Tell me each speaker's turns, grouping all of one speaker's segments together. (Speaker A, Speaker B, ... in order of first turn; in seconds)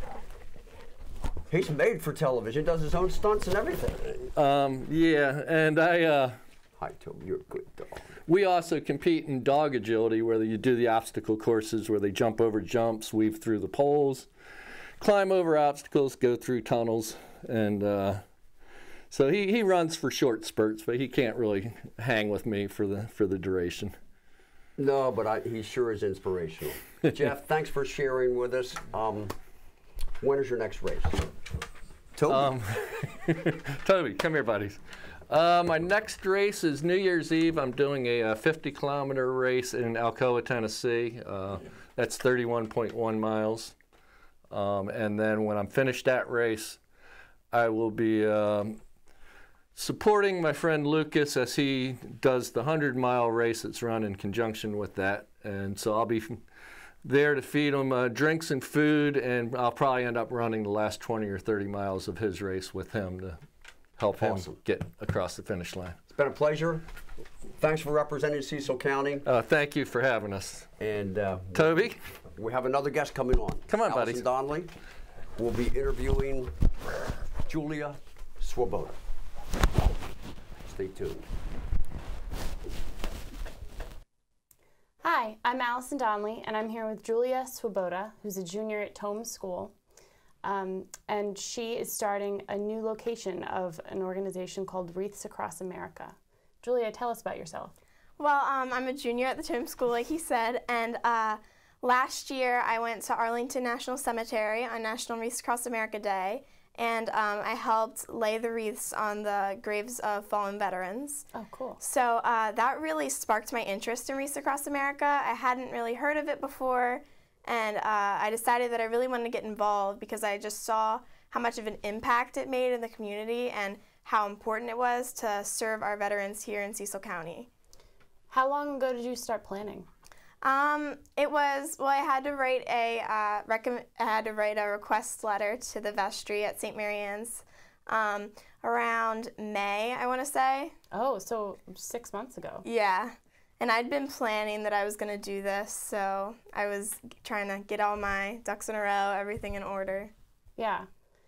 Speaker A: 1.5-4.2, 6.8-8.1, 24.8-29.3, 30.2-31.3, 32.1-32.5, 64.2-64.6, 66.1-66.8, 67.6-69.3, 70.8-74.7, 75.3-76.5, 77.5-79.0, 80.6-81.3
Speaker B: 4.3-6.4, 8.3-14.3, 15.0-18.2, 19.1-23.9, 32.3-43.7, 44.5-46.8, 47.5-48.8, 49.7-56.4, 57.0-63.4, 64.0-66.0, 69.2-70.7, 71.5-72.0, 73.7-74.2
Speaker C: 85.0-89.7, 90.4-97.8, 111.3-111.8, 128.3-129.9, 140.9-142.7, 150.6-150.9
Speaker D: 98.2-111.2, 111.8-127.5, 130.4-140.7, 142.6-150.1